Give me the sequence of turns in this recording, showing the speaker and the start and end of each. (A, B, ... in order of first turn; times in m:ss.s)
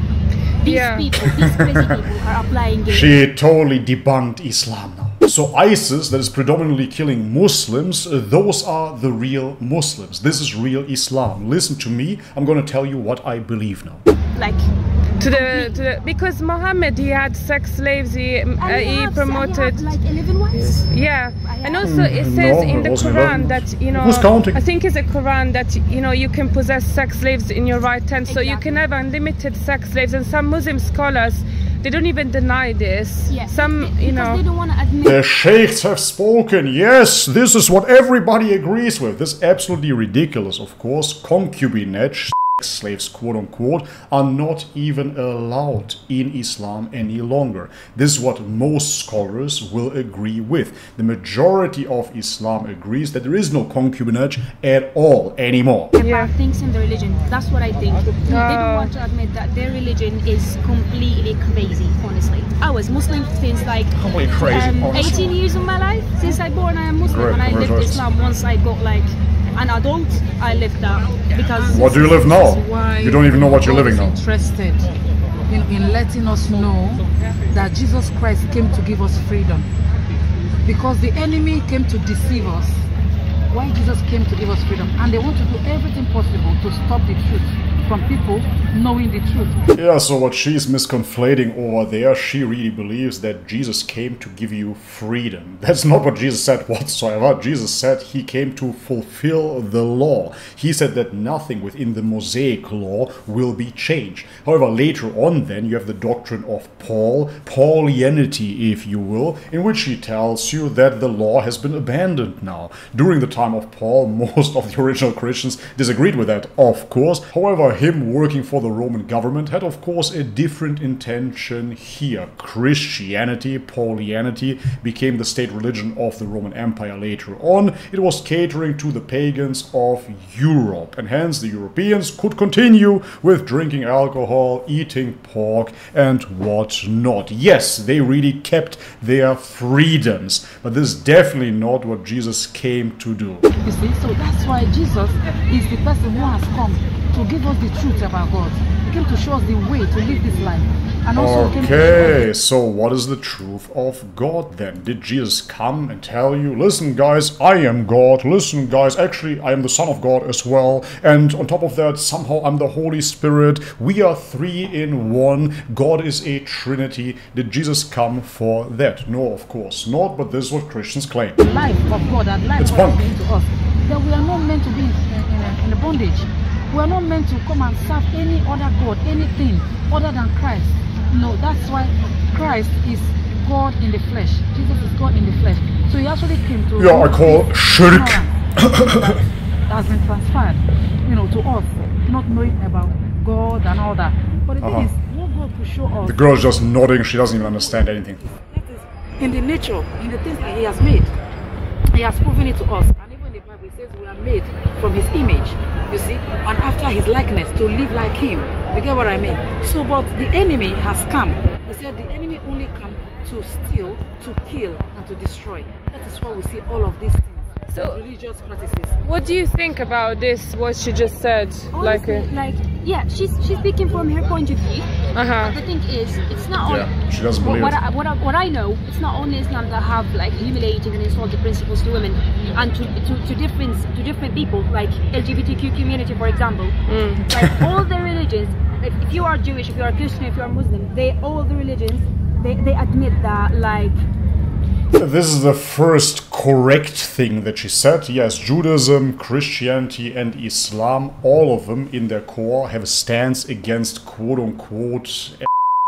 0:00.6-0:01.1 A
0:00.6-0:03.2 B
0:01.1-0:02.0 C
0:02.9-0:14.0 C
0:14.3-0:14.7 B
0:15.2-0:20.0 A
0:15.2-0:15.8 B
0:18.6-0:20.9 B
0:20.6-0:34.4 A
0:21.4-0:21.9 B
0:21.8-0:24.6 C
0:28.3-0:28.8 B
0:33.3-0:35.2 B
0:35.0-0:55.9 C
0:55.9-1:12.3 B
0:56.0-0:56.3 A
0:58.2-0:58.9 A
1:03.9-1:05.4 C
1:07.0-1:08.1 C
1:11.6-1:14.9 D
1:11.7-1:14.2 C
1:15.5-1:19.7 D
1:20.6-1:22.9 D
1:23.5-1:29.6 D
1:29.7-2:23.5 C
2:23.6-2:32.3 D
2:31.1-2:51.4 C
2:51.4-3:16.4 D
2:52.6-2:53.1 C
3:06.8-3:09.2 C
3:14.6-3:14.9 C
3:16.0-3:18.2 C
3:17.4-3:21.1 D
3:21.9-3:39.0 D
3:37.7-3:38.0 A
3:39.0-3:42.3 A
3:41.7-4:04.0 B
3:45.1-3:45.6 A
3:46.6-3:47.8 C
3:56.9-3:57.2 A
4:05.0-4:15.5 C